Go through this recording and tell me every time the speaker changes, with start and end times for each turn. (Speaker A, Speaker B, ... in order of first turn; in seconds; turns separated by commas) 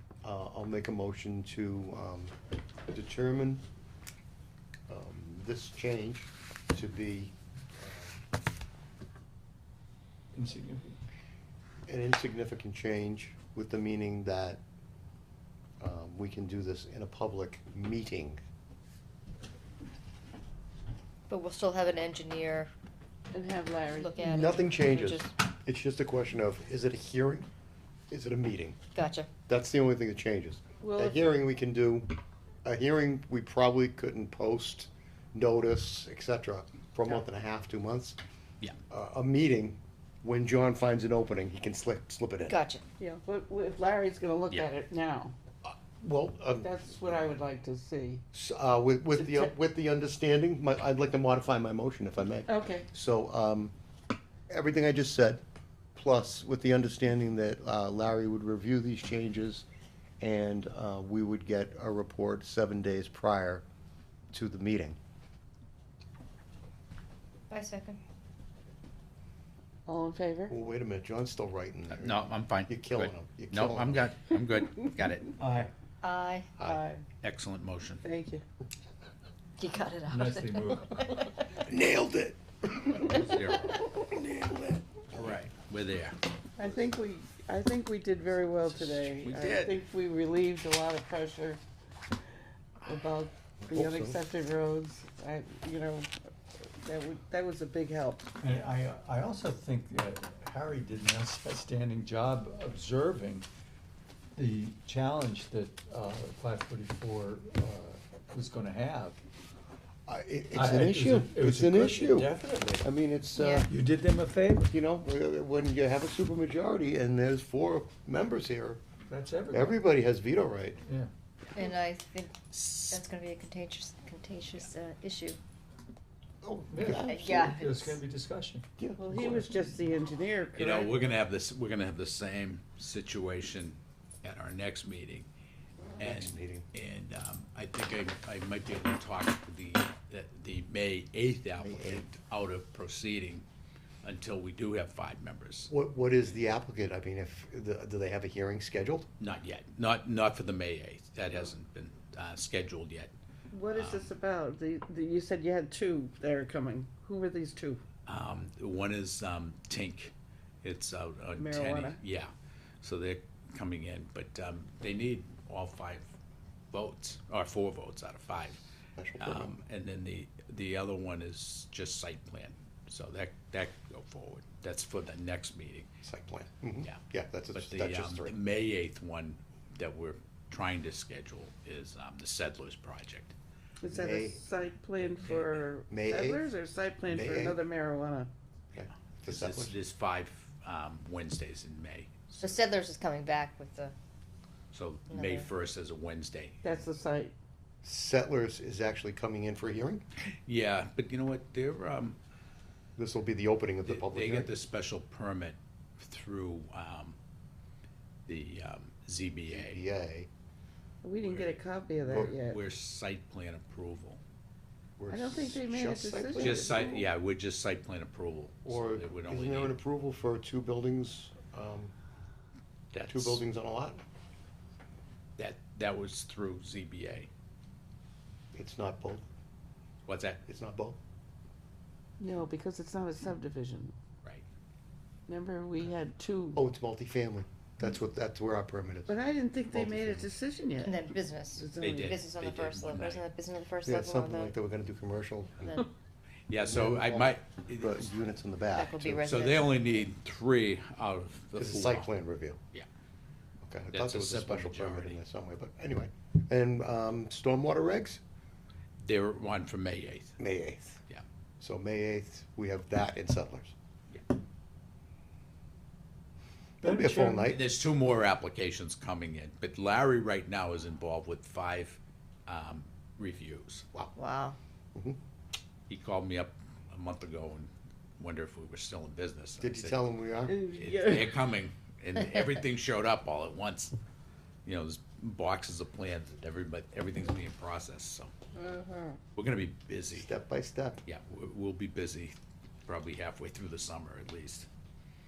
Speaker A: 0.2-2.3, Speaker A: 2.9-3.6, Speaker A: 4.9-8.2, Speaker B: 10.3-11.0, Speaker A: 11.9-14.6, Speaker A: 15.8-18.4, Speaker C: 21.3-22.7, Speaker D: 23.3-24.3, Speaker C: 23.9-25.3, Speaker A: 24.2-27.5, Speaker A: 28.1-28.8, Speaker C: 28.9-29.3, Speaker A: 29.5-32.1, Speaker D: 30.8-31.2, Speaker A: 32.6-38.2, Speaker A: 38.9-42.6, Speaker C: 42.5-42.9, Speaker D: 43.0-45.4, Speaker A: 45.6-47.2, Speaker D: 46.6-48.2, Speaker A: 48.3-53.7, Speaker D: 49.2-49.5, Speaker D: 52.5-52.9, Speaker A: 54.5-55.4, Speaker A: 56.0-59.7, Speaker A: 60.2-63.6, Speaker A: 64.3-65.0, Speaker C: 67.5-68.0, Speaker D: 69.9-70.5, Speaker A: 70.5-74.1, Speaker E: 71.9-75.3, Speaker B: 75.4-75.7, Speaker C: 76.0-76.6, Speaker D: 76.6-77.0, Speaker E: 77.2-78.0, Speaker D: 78.0-78.4, Speaker C: 79.6-81.5, Speaker B: 80.1-81.1, Speaker A: 81.6-85.3, Speaker C: 83.1-83.8, Speaker E: 83.3-83.7, Speaker E: 85.1-86.2, Speaker D: 86.6-91.6, Speaker E: 89.2-89.7, Speaker D: 92.8-96.1, Speaker A: 93.6-94.2, Speaker D: 96.8-98.3, Speaker B: 98.4-103.5, Speaker B: 104.3-109.2, Speaker A: 110.1-113.7, Speaker B: 110.5-112.9, Speaker C: 113.4-113.7, Speaker B: 113.7-114.7, Speaker A: 114.7-118.8, Speaker B: 119.1-119.8, Speaker A: 119.5-120.8, Speaker B: 120.8-121.1, Speaker E: 121.5-121.7, Speaker C: 121.5-122.4, Speaker E: 122.5-123.0, Speaker C: 122.9-125.4, Speaker A: 126.4-127.6, Speaker B: 126.7-129.3, Speaker C: 127.0-128.0, Speaker A: 128.8-129.4, Speaker D: 129.0-131.0, Speaker E: 130.6-135.3, Speaker A: 136.0-136.7, Speaker E: 136.0-143.4, Speaker A: 141.6-142.1, Speaker E: 144.0-145.7, Speaker A: 145.7-149.1, Speaker E: 149.2-153.1, Speaker D: 153.5-157.8, Speaker E: 153.7-154.1, Speaker E: 158.1-162.3, Speaker D: 161.3-162.0, Speaker E: 162.8-166.1, Speaker E: 166.7-168.6, Speaker A: 169.0-169.6, Speaker E: 169.2-175.9, Speaker A: 176.0-178.4, Speaker E: 177.5-183.3, Speaker D: 183.8-188.3, Speaker A: 183.8-184.4, Speaker E: 185.0-185.7, Speaker A: 185.9-186.4, Speaker A: 187.1-187.6, Speaker A: 188.7-189.8, Speaker E: 189.2-192.6, Speaker C: 192.4-193.9, Speaker E: 194.7-196.6, Speaker C: 195.1-195.5, Speaker D: 196.6-197.3, Speaker A: 197.8-200.0, Speaker E: 200.3-202.2, Speaker A: 203.0-204.5, Speaker E: 203.8-207.2, Speaker E: 208.3-209.8, Speaker A: 209.5-210.3, Speaker D: 211.0-212.6, Speaker E: 211.2-211.6, Speaker A: 212.1-212.3, Speaker E: 212.3-214.2, Speaker A: 215.0-217.0, Speaker D: 215.1-217.1, Speaker E: 216.4-219.8, Speaker A: 218.7-221.9, Speaker E: 222.9-223.4, Speaker A: 223.1-224.0, Speaker E: 225.4-227.3, Speaker A: 228.5-229.2, Speaker E: 230.1-230.4, Speaker A: 230.5-231.0, Speaker D: 232.2-233.9, Speaker D: 235.3-236.6, Speaker A: 236.6-239.2, Speaker D: 239.1-241.0, Speaker A: 239.7-240.3, Speaker C: 240.8-244.5, Speaker D: 241.6-242.2, Speaker E: 241.8-243.3, Speaker A: 243.9-245.8, Speaker E: 246.5-248.1, Speaker A: 246.6-249.2, Speaker C: 248.7-249.8, Speaker E: 249.2-252.1, Speaker A: 251.6-252.6, Speaker A: 253.6-258.2, Speaker E: 253.9-255.2, Speaker E: 259.0-260.4, Speaker A: 260.4-261.0, Speaker A: 261.6-263.7, Speaker A: 266.8-267.6, Speaker B: 266.8-267.6, Speaker E: 267.5-273.9, Speaker D: 274.1-274.6, Speaker E: 275.9-284.0, Speaker A: 279.6-280.6, Speaker D: 280.5-281.4, Speaker E: 284.6-288.3, Speaker D: 288.6-289.1, Speaker E: 289.4-290.3, Speaker A: 290.1-291.0, Speaker E: 291.1-294.7